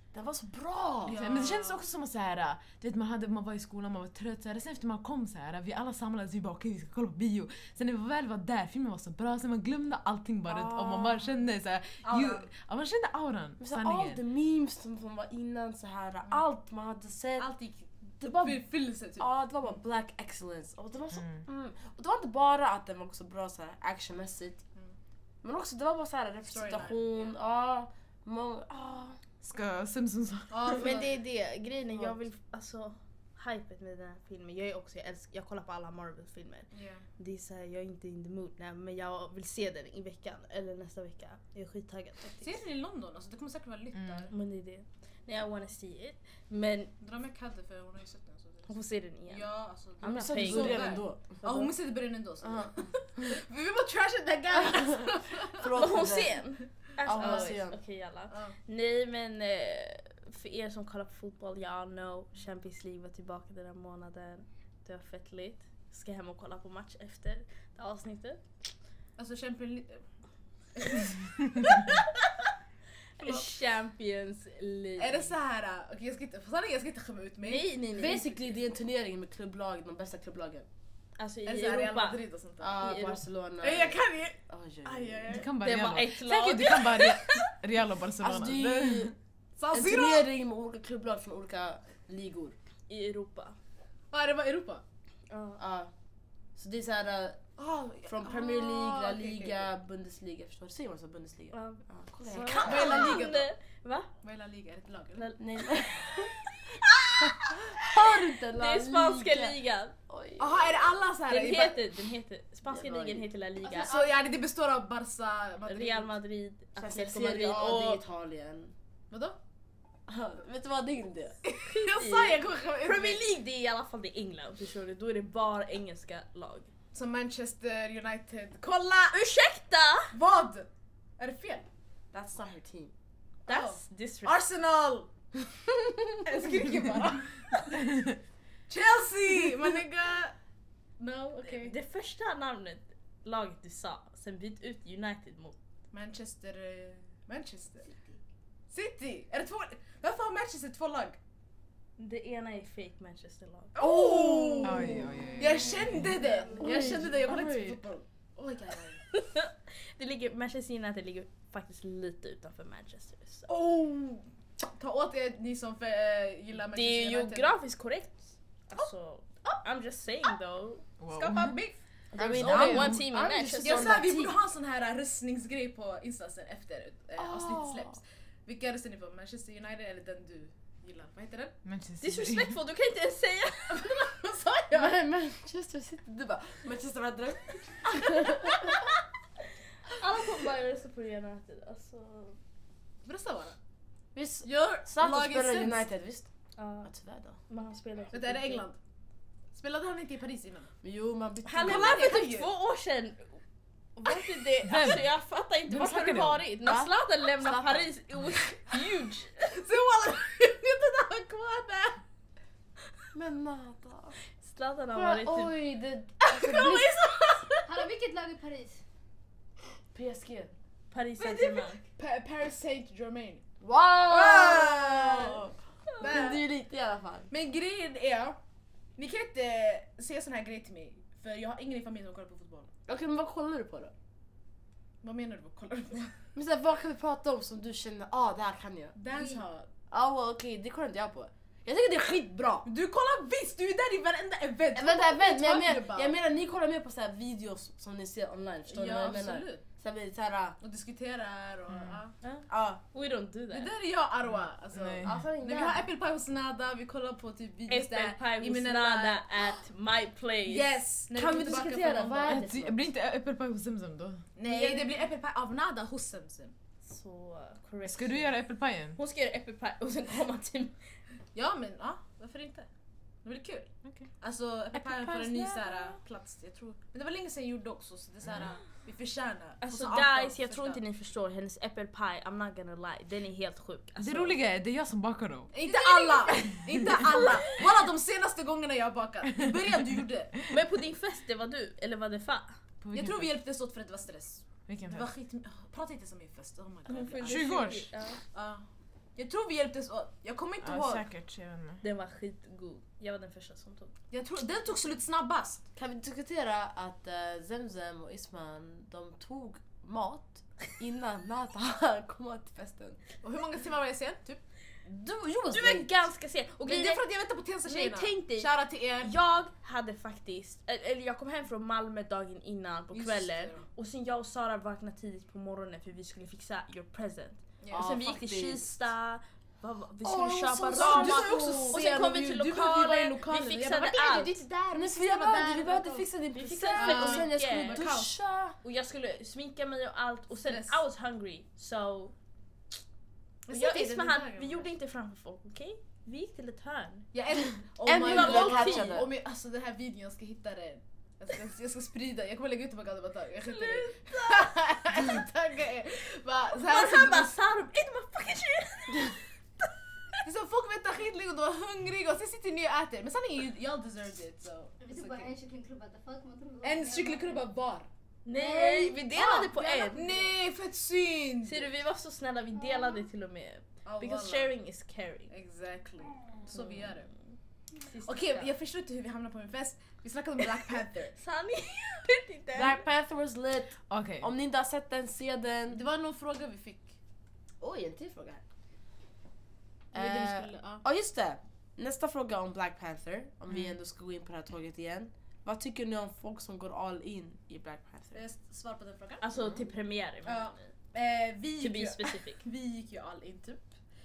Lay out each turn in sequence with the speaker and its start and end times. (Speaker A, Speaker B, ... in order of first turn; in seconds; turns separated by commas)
Speaker A: 0.1-1.2, Speaker B: 1.0-1.9, Speaker C: 1.1-14.2, Speaker A: 10.5-11.3, Speaker B: 12.0-12.5, Speaker A: 13.6-17.5, Speaker B: 17.4-19.8, Speaker A: 18.2-18.6, Speaker A: 19.2-24.6, Speaker C: 21.1-21.4, Speaker A: 25.4-29.2, Speaker B: 26.5-27.4, Speaker C: 29.4-30.9, Speaker B: 30.5-31.2, Speaker D: 30.7-42.6, Speaker A: 31.9-32.2, Speaker B: 36.7-37.0, Speaker B: 42.4-44.3, Speaker C: 43.9-44.3, Speaker D: 44.3-46.9, Speaker B: 47.0-56.0, Speaker D: 48.7-51.7, Speaker A: 50.0-51.4, Speaker A: 52.4-53.3, Speaker A: 55.5-56.5, Speaker D: 55.7-68.4, Speaker A: 57.0-57.8, Speaker B: 57.1-57.6, Speaker B: 58.3-58.5, Speaker B: 69.2-70.0, Speaker B: 70.8-72.0, Speaker D: 73.2-75.3, Speaker B: 73.2-73.5, Speaker B: 75.0-78.1, Speaker D: 77.4-78.3, Speaker A: 77.9-80.7, Speaker D: 81.2-82.2, Speaker B: 81.5-83.0, Speaker A: 82.6-85.5, Speaker D: 82.8-83.2, Speaker B: 83.6-84.4, Speaker D: 84.9-87.5, Speaker C: 85.3-89.1, Speaker A: 88.2-89.1, Speaker B: 89.6-90.3, Speaker A: 89.7-92.5, Speaker D: 92.9-93.6, Speaker B: 94.1-94.8, Speaker D: 95.3-95.6, Speaker A: 95.6-95.9, Speaker A: 96.5-97.4, Speaker B: 97.6-99.7, Speaker A: 98.0-103.3, Speaker D: 101.5-104.1, Speaker B: 102.5-103.5, Speaker B: 104.2-105.3, Speaker D: 105.2-107.9, Speaker A: 105.4-106.4, Speaker A: 107.2-110.9, Speaker D: 108.5-110.0, Speaker B: 110.4-111.8, Speaker D: 111.3-114.0, Speaker A: 112.6-113.3, Speaker B: 113.6-116.1, Speaker D: 115.7-118.0, Speaker A: 116.8-118.7, Speaker B: 119.1-119.4, Speaker A: 120.1-121.4, Speaker B: 121.4-123.2, Speaker D: 121.7-126.7, Speaker B: 126.9-129.2, Speaker D: 129.1-130.1, Speaker B: 130.1-131.7, Speaker A: 132.1-132.9, Speaker D: 133.5-134.4, Speaker B: 133.5-135.1, Speaker B: 136.2-137.6, Speaker C: 137.9-138.2, Speaker B: 138.7-140.4, Speaker B: 141.0-141.8, Speaker D: 141.4-145.6, Speaker B: 145.9-147.9, Speaker B: 148.7-151.2, Speaker D: 152.0-153.8, Speaker B: 153.8-159.0, Speaker A: 153.8-155.4, Speaker C: 154.6-156.1, Speaker A: 156.5-157.8, Speaker D: 159.1-163.5, Speaker B: 163.5-167.6, Speaker D: 166.7-170.8, Speaker C: 171.0-171.6, Speaker B: 171.1-171.8, Speaker A: 172.1-174.4, Speaker D: 172.1-174.0, Speaker C: 172.2-173.1, Speaker B: 173.6-181.6, Speaker A: 177.2-178.0, Speaker C: 181.6-182.6, Speaker D: 182.0-184.1, Speaker B: 183.7-184.9, Speaker A: 184.7-188.7, Speaker D: 189.9-192.4, Speaker B: 193.1-193.6, Speaker A: 194.1-196.3, Speaker B: 194.4-195.9, Speaker D: 196.6-196.9, Speaker A: 196.8-197.4, Speaker D: 197.5-198.6, Speaker B: 198.1-198.8, Speaker B: 199.5-200.7, Speaker A: 200.8-202.2, Speaker D: 201.4-203.4, Speaker B: 201.6-202.5, Speaker D: 203.9-209.3, Speaker C: 204.6-205.1, Speaker C: 205.7-206.5, Speaker A: 206.6-207.8, Speaker B: 209.4-212.0, Speaker A: 213.1-214.2, Speaker D: 214.4-215.5, Speaker A: 214.9-217.0, Speaker B: 216.3-217.9, Speaker E: 217.7-218.8, Speaker A: 219.9-220.5, Speaker D: 220.9-221.8, Speaker B: 221.2-223.4, Speaker A: 223.6-227.3, Speaker B: 224.0-226.4, Speaker B: 227.3-228.4, Speaker B: 229.0-232.7, Speaker A: 232.9-233.9, Speaker B: 235.0-236.2, Speaker A: 236.3-238.9, Speaker B: 238.9-239.7, Speaker E: 239.1-239.4, Speaker A: 239.9-242.7, Speaker B: 242.6-246.2, Speaker A: 244.7-250.6, Speaker B: 248.7-249.6, Speaker B: 250.6-252.1, Speaker C: 251.7-252.0, Speaker D: 252.2-253.7, Speaker A: 252.5-252.8, Speaker B: 253.5-259.3, Speaker C: 254.3-255.2, Speaker A: 255.0-255.8, Speaker D: 257.7-260.8, Speaker B: 260.4-262.4, Speaker A: 261.1-262.8, Speaker C: 262.3-264.3, Speaker B: 264.4-266.6, Speaker D: 264.5-265.0, Speaker D: 266.8-268.4, Speaker C: 267.8-269.0, Speaker D: 269.0-270.8, Speaker B: 271.4-272.7, Speaker B: 273.2-280.8, Speaker C: 274.8-275.4, Speaker C: 278.2-278.5, Speaker D: 279.6-284.4, Speaker C: 284.0-285.5, Speaker B: 285.5-290.4, Speaker C: 289.4-289.8, Speaker D: 290.5-292.6, Speaker C: 292.8-293.3, Speaker B: 292.9-297.6, Speaker C: 294.7-295.1, Speaker D: 296.9-298.2, Speaker C: 297.2-297.9, Speaker B: 298.3-298.6, Speaker B: 299.1-301.1, Speaker C: 300.6-301.8, Speaker D: 301.8-303.9, Speaker B: 304.1-305.6, Speaker A: 305.8-313.0, Speaker B: 313.2-314.4, Speaker A: 314.9-315.9, Speaker D: 315.5-317.0, Speaker B: 316.6-319.1, Speaker D: 317.6-334.4, Speaker B: 322.9-323.6, Speaker B: 327.6-327.9, Speaker A: 327.7-328.6, Speaker A: 330.0-332.1, Speaker B: 330.7-336.1, Speaker A: 334.7-338.6, Speaker D: 336.3-337.9, Speaker B: 336.7-338.1, Speaker D: 338.6-342.1, Speaker B: 340.4-340.8, Speaker B: 343.4-344.7, Speaker D: 343.5-347.1, Speaker B: 347.1-357.4, Speaker A: 347.9-349.1, Speaker D: 347.9-349.1, Speaker D: 353.4-354.6, Speaker D: 356.5-359.7, Speaker B: 360.2-365.3, Speaker E: 364.8-367.4, Speaker B: 366.6-367.9, Speaker D: 368.2-370.1, Speaker E: 368.4-368.8, Speaker B: 368.5-371.7, Speaker D: 371.4-375.3, Speaker E: 372.6-373.0, Speaker B: 373.9-374.6, Speaker B: 375.3-377.1, Speaker D: 376.5-376.9, Speaker D: 377.8-378.6, Speaker B: 378.0-381.1, Speaker D: 381.1-382.8, Speaker A: 382.5-385.8, Speaker C: 383.9-384.3, Speaker B: 385.7-387.0, Speaker A: 387.6-388.4, Speaker A: 389.9-398.2, Speaker B: 389.9-390.8, Speaker C: 393.5-393.8, Speaker B: 398.1-399.2, Speaker D: 399.2-400.7, Speaker A: 399.4-399.6, Speaker B: 400.2-403.7, Speaker D: 401.6-402.4